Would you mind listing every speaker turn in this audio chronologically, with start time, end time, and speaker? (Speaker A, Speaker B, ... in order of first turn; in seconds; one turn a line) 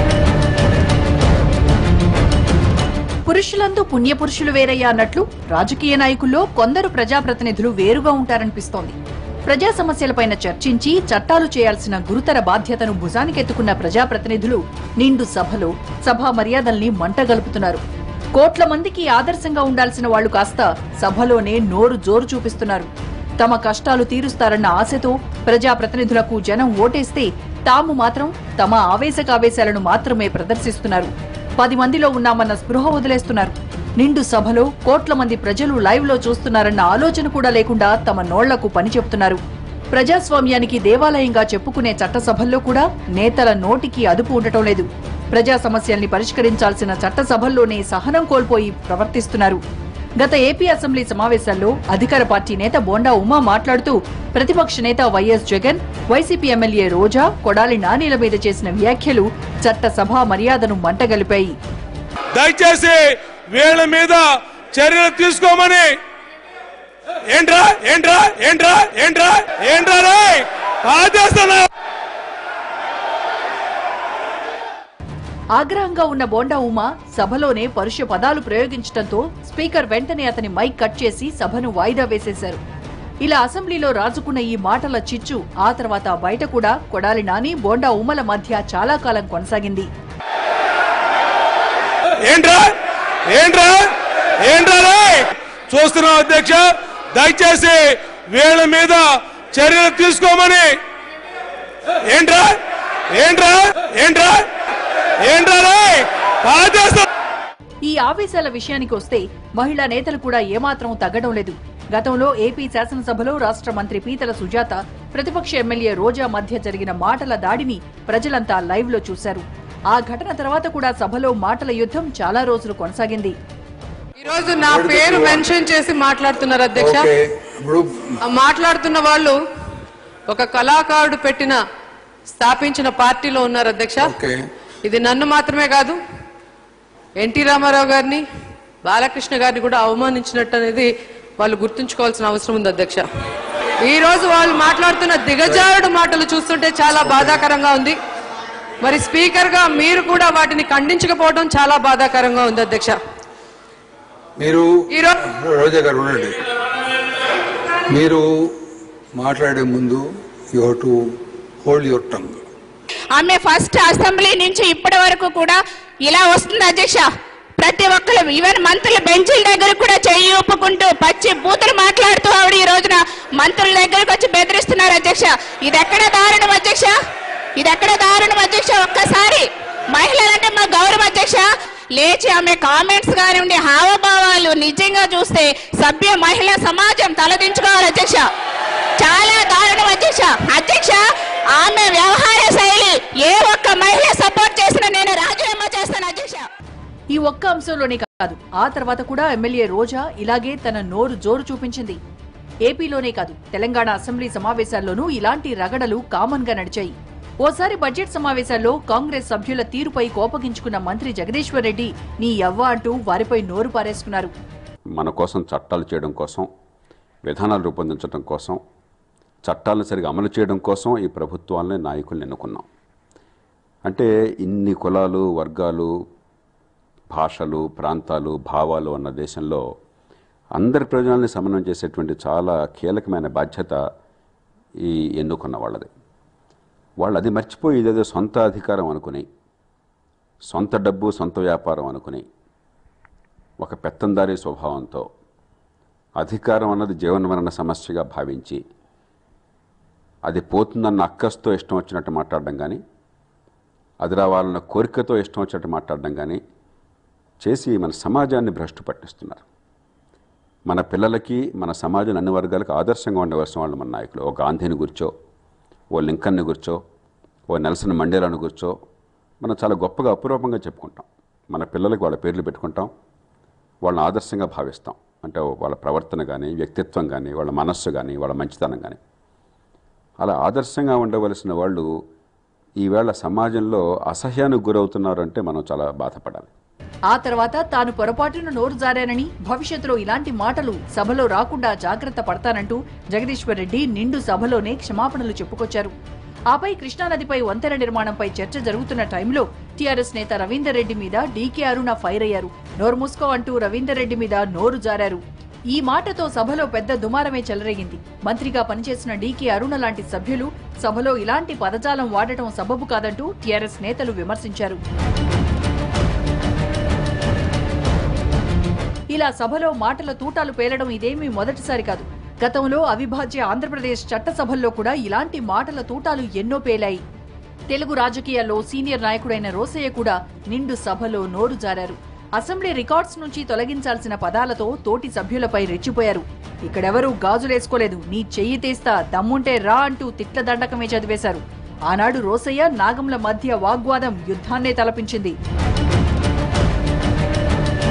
Speaker A: 3.3-9.0
Speaker A: 9.5-17.8
Speaker A: 18.4-22.9
Speaker A: 23.4-39.4
Speaker A: 39.9-49.6
Speaker A: 50.2-61.6
Speaker B: 62.3-66.0
Speaker B: 67.3-71.7
Speaker A: 75.6-82.6
Speaker A: 83.2-89.9
Speaker B: 92.3-92.7
Speaker B: 93.3-93.9
Speaker B: 94.4-100.8
Speaker B: 102.1-102.6
Speaker B: 103.1-104.4
Speaker B: 105.2-107.1
Speaker A: 107.8-123.3
Speaker C: 124.2-127.1
Speaker D: 124.6-125.5
Speaker D: 126.8-128.2
Speaker C: 128.2-129.4
Speaker C: 130.3-131.6
Speaker C: 132.3-134.1
Speaker D: 134.0-134.4
Speaker C: 134.8-136.0
Speaker C: 137.2-138.2
Speaker C: 138.8-143.1
Speaker C: 143.8-148.0
Speaker D: 147.0-147.4
Speaker C: 148.8-153.0
Speaker D: 154.4-154.7
Speaker C: 154.9-155.2
Speaker D: 155.2-156.4
Speaker D: 157.9-158.6
Speaker D: 159.2-161.0
Speaker D: 161.6-162.4
Speaker E: 163.2-167.1
Speaker E: 167.6-176.9
Speaker E: 177.6-188.2
Speaker E: 189.0-191.0
Speaker E: 191.6-196.4
Speaker A: 197.1-202.0
Speaker A: 202.7-214.3
Speaker F: 215.0-216.5
Speaker F: 217.2-218.6
Speaker F: 219.5-222.7
Speaker F: 223.9-225.9
Speaker F: 227.1-229.6
Speaker F: 230.6-233.8
Speaker F: 234.8-235.9
Speaker F: 237.0-239.2
Speaker F: 240.5-242.2
Speaker F: 243.6-245.1
Speaker F: 246.2-248.6
Speaker F: 250.3-252.8
Speaker F: 254.0-256.4
Speaker F: 257.4-259.4
Speaker F: 260.7-265.1
Speaker F: 265.9-266.8
Speaker F: 267.5-268.7
Speaker F: 269.4-272.9
Speaker F: 273.9-279.0
Speaker F: 280.2-281.9
Speaker F: 282.8-286.5
Speaker A: 287.1-295.9
Speaker A: 296.5-314.8
Speaker A: 319.1-327.0
Speaker A: 327.7-345.4